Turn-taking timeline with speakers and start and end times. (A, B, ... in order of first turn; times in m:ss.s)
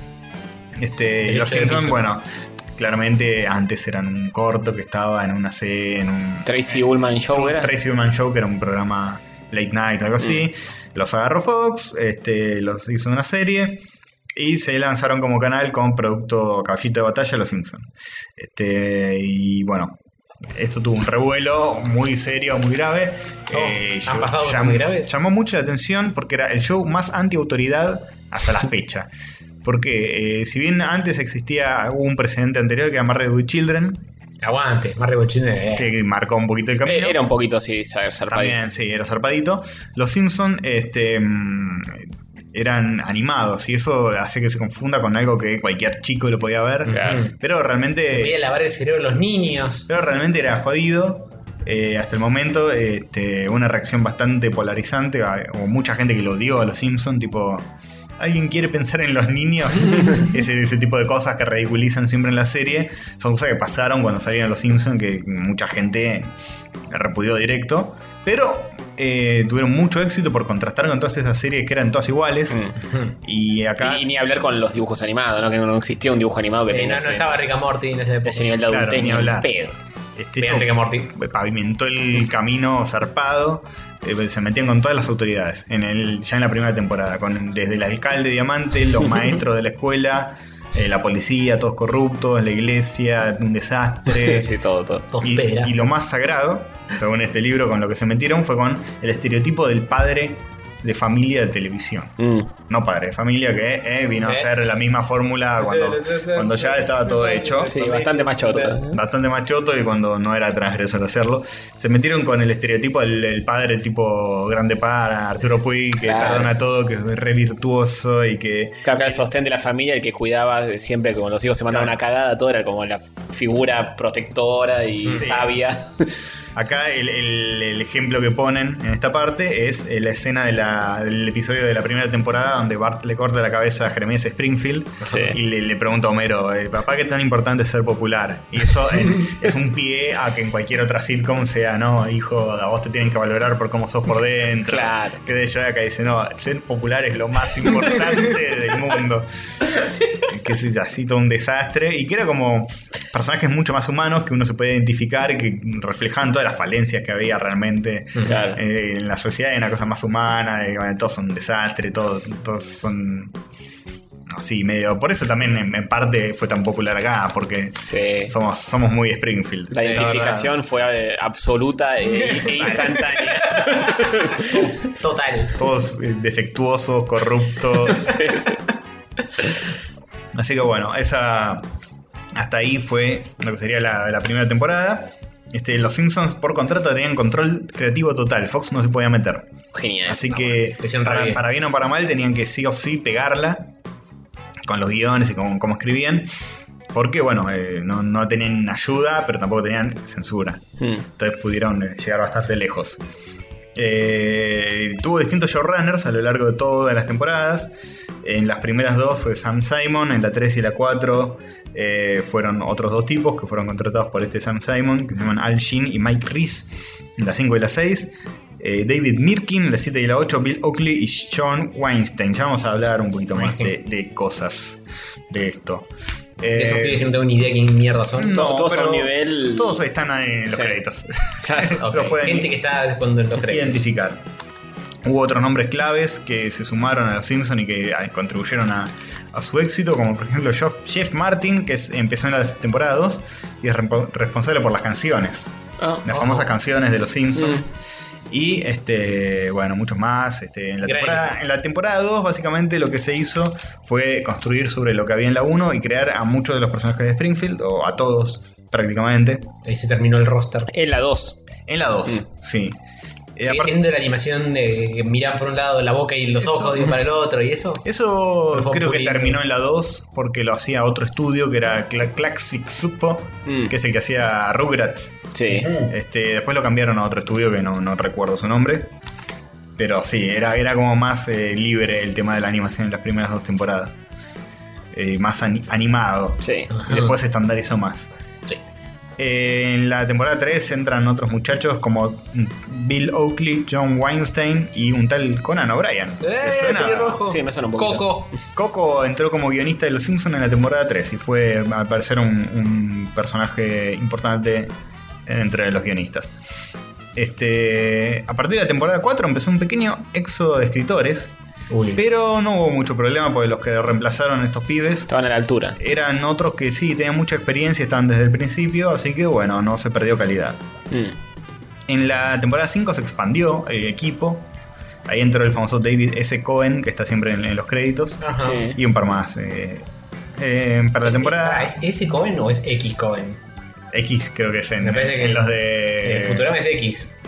0:00.7-0:20.0 A
0:01.2-0:02.1 B
0:06.5-0:07.7 C
0:20.5-0:29.1 A
0:23.5-0:25.1 B
0:29.6-0:34.0 A
0:34.4-0:35.9 B
0:35.8-0:37.2 A
0:36.8-0:38.6 C
0:38.3-0:48.4 A
0:46.8-0:47.3 B
0:46.9-0:47.2 C
0:48.1-0:49.9 B
0:49.9-0:57.7 A
0:58.2-1:06.3 A
1:06.9-1:12.6 A
1:12.5-1:12.8 C
1:12.8-1:13.2 B
1:13.2-1:14.1 A
1:13.8-1:17.4 C
1:16.7-1:18.6 B
1:18.2-1:19.8 C
1:18.7-1:19.5 A
1:20.2-1:34.5 A
1:20.4-1:21.1 B
1:34.1-1:35.1 C
1:35.1-1:35.8 B
1:35.2-1:42.2 A
1:42.2-1:42.5 C
1:42.7-1:47.7 A
1:44.2-1:44.5 B
1:45.6-1:48.8 B
1:47.7-1:49.0 C
1:48.9-1:59.2 A
1:56.0-1:56.5 C
1:58.8-2:06.1 C
2:01.7-2:02.0 A
2:05.2-2:05.6 A
2:06.6-2:29.3 A
2:15.0-2:15.4 B
2:15.1-2:15.4 C
2:24.7-2:25.2 C
2:30.2-2:43.4 A
2:38.2-2:38.6 C
2:44.3-2:50.6 A
2:47.9-2:48.3 C
2:49.7-2:54.6 C
2:49.8-2:50.1 B
2:52.2-2:55.6 B
2:52.6-2:53.0 A
2:55.5-2:58.2 A
2:58.0-2:58.6 C
3:00.3-3:01.7 A
3:02.3-3:09.5 A
3:09.7-3:10.2 C
3:10.0-3:13.7 A
3:10.3-3:11.4 B
3:14.7-3:16.3 A
3:16.9-3:23.0 A
3:20.8-3:21.1 C
3:23.8-3:47.2 A
3:43.4-3:43.8 B
3:46.5-3:48.4 B
3:48.1-3:52.5 A
3:48.3-3:49.8 C
3:50.5-3:50.8 C
3:51.4-3:51.8 C
3:51.8-3:53.8 B
3:53.4-3:54.2 A
3:55.0-4:05.5 A
4:05.8-4:06.3 C
4:06.0-4:07.6 A
4:07.4-4:07.7 C
4:08.3-4:19.5 A
4:10.8-4:11.4 B
4:19.6-4:20.7 B
4:20.7-4:21.4 C
4:21.7-4:22.8 A
4:23.4-4:23.8 A
4:23.4-4:27.8 B
4:26.4-4:26.9 A
4:27.8-4:35.3 A
4:28.5-4:29.4 B
4:33.5-4:33.7 C
4:35.3-4:35.7 C
4:35.5-4:35.9 B
4:35.9-4:38.9 A
4:39.8-4:44.0 A
4:44.9-4:48.1 A
4:46.4-4:46.7 C
4:46.7-4:47.1 B
4:49.2-4:57.2 A
4:56.2-4:58.3 B
4:57.2-4:58.2 C
4:58.6-5:04.7 A
5:05.3-5:06.4 A
5:07.2-5:11.3 A
5:11.7-5:12.0 B
5:12.0-5:15.1 A
5:15.1-5:15.8 C
5:15.8-5:20.6 A
5:20.9-5:21.2 C
5:21.9-5:24.5 A
5:25.1-5:31.8 A
5:28.2-5:28.7 B
5:28.4-5:28.8 C
5:31.0-5:33.4 B
5:33.9-5:36.5 A
5:34.8-5:37.1 B